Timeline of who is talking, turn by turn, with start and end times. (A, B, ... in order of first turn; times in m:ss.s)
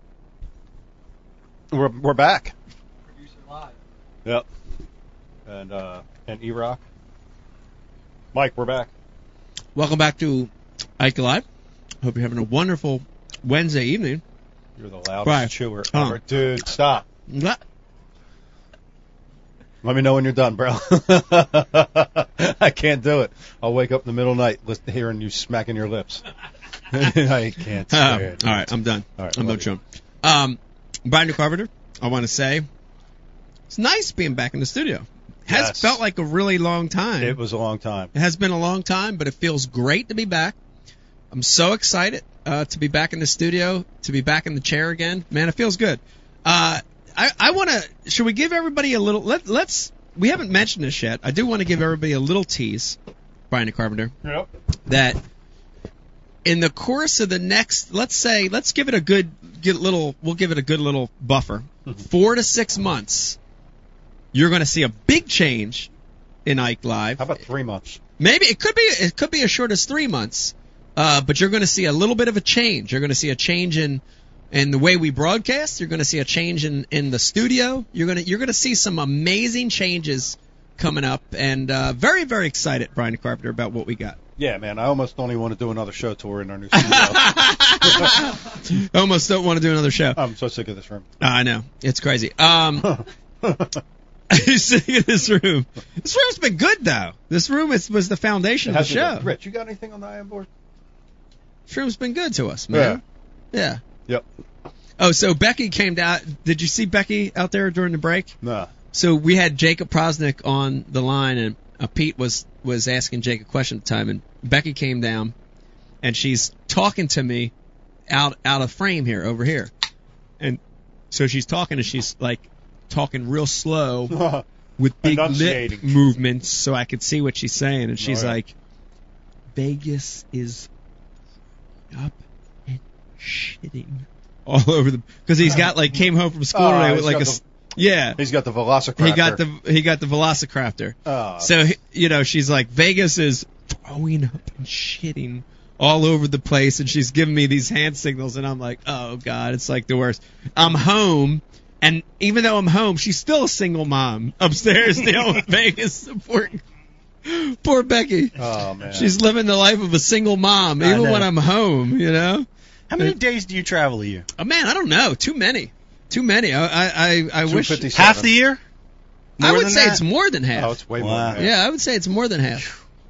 0:01.7-0:02.5 A
0:05.5-0:06.8 A
0:08.3-0:08.9 A
0:09.7-0:11.4 B
0:12.0-0:14.2 B
0:14.8-0:17.0 A
0:15.2-0:16.2 B
0:17.3-0:17.6 B
0:19.8-0:26.2 A
0:26.9-0:29.7 A
0:27.9-0:32.7 B
0:33.7-0:37.4 B
0:35.5-0:36.0 A
0:37.2-0:38.1 A
0:38.1-0:40.6 B
0:41.3-0:53.0 B
0:53.5-0:54.1 B
0:54.2-0:54.5 A
0:54.9-0:55.2 B
0:56.4-1:03.4 B
1:04.3-1:05.9 B
1:06.4-1:07.2 B
1:07.2-1:08.0 A
1:08.2-1:24.2 B
1:24.4-1:28.1 A
1:26.7-1:30.2 B
1:30.2-1:31.1 A
1:31.2-1:32.9 B
1:32.8-1:33.8 A
1:34.3-1:39.3 B
1:38.7-1:40.5 A
1:41.7-1:43.0 B
1:42.7-1:43.0 A
1:43.5-1:43.8 B
1:45.0-1:48.3 B
1:48.4-1:48.7 A
1:48.9-1:55.3 B
1:56.0-1:57.5 B
1:58.1-1:59.7 B
2:01.1-2:04.2 B
2:04.1-2:04.4 A
2:04.8-2:08.5 B
2:05.0-2:06.0 A
2:08.0-2:08.4 A
2:09.6-2:10.7 B
2:11.9-2:18.2 B
2:16.5-2:17.4 A
2:18.2-2:19.4 A
2:19.0-2:36.6 B
2:21.1-2:21.5 A
2:37.2-2:38.4 B
2:38.4-2:39.2 A
2:38.9-2:42.5 B
2:40.8-2:41.3 C
2:42.9-2:44.3 C
2:44.4-2:47.9 B
2:47.4-2:48.3 A
2:47.9-2:48.6 C
2:49.4-2:50.0 C
2:49.4-2:50.8 B
2:50.6-2:51.5 A
2:51.0-2:51.4 C
2:51.4-2:52.7 B